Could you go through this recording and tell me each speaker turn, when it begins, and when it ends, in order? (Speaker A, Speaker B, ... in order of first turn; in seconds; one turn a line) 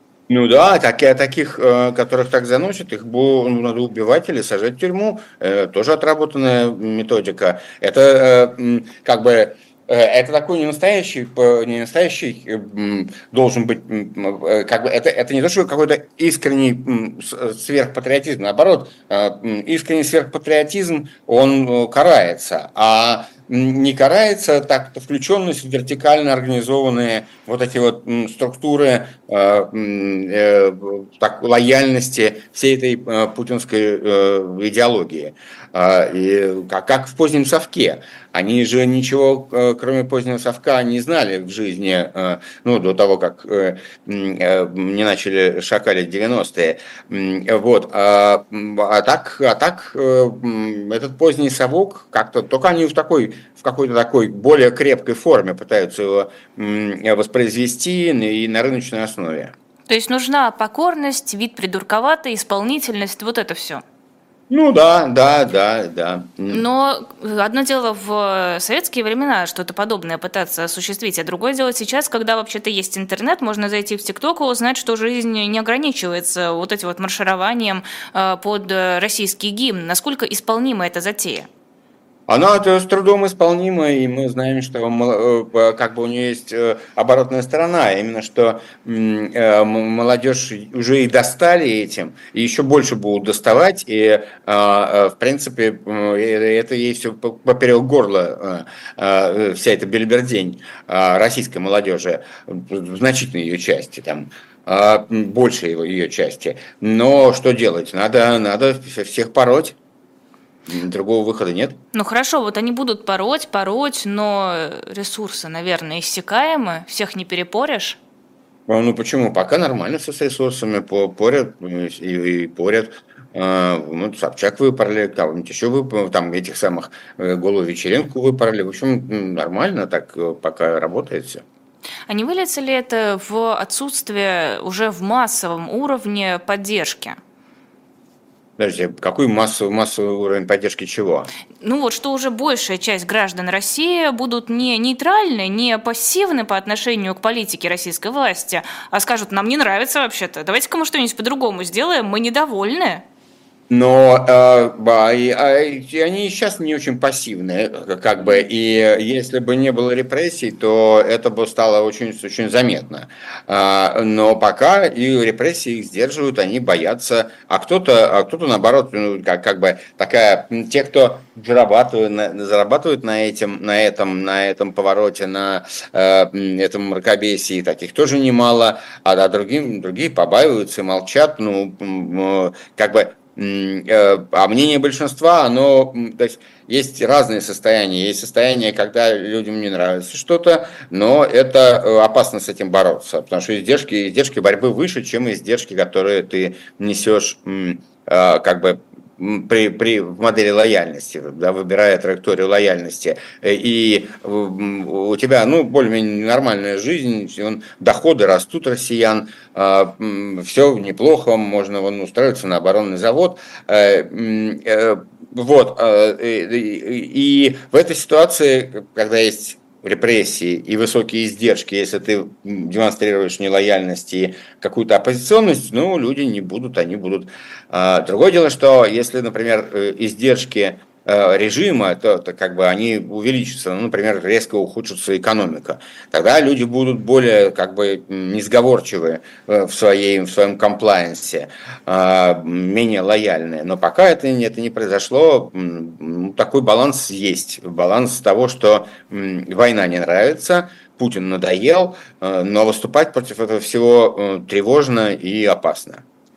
Speaker A: 0.3-59.5
Speaker B: 59.9-63.8
Speaker A: 64.5-66.6
Speaker B: 66.5-81.5
Speaker A: 82.3-109.8
Speaker A: 110.7-111.8
Speaker B: 111.9-118.0
Speaker A: 118.7-131.4
Speaker B: 132.1-137.2
Speaker A: 138.6-141.3
Speaker B: 141.6-153.0
Speaker A: 153.7-256.0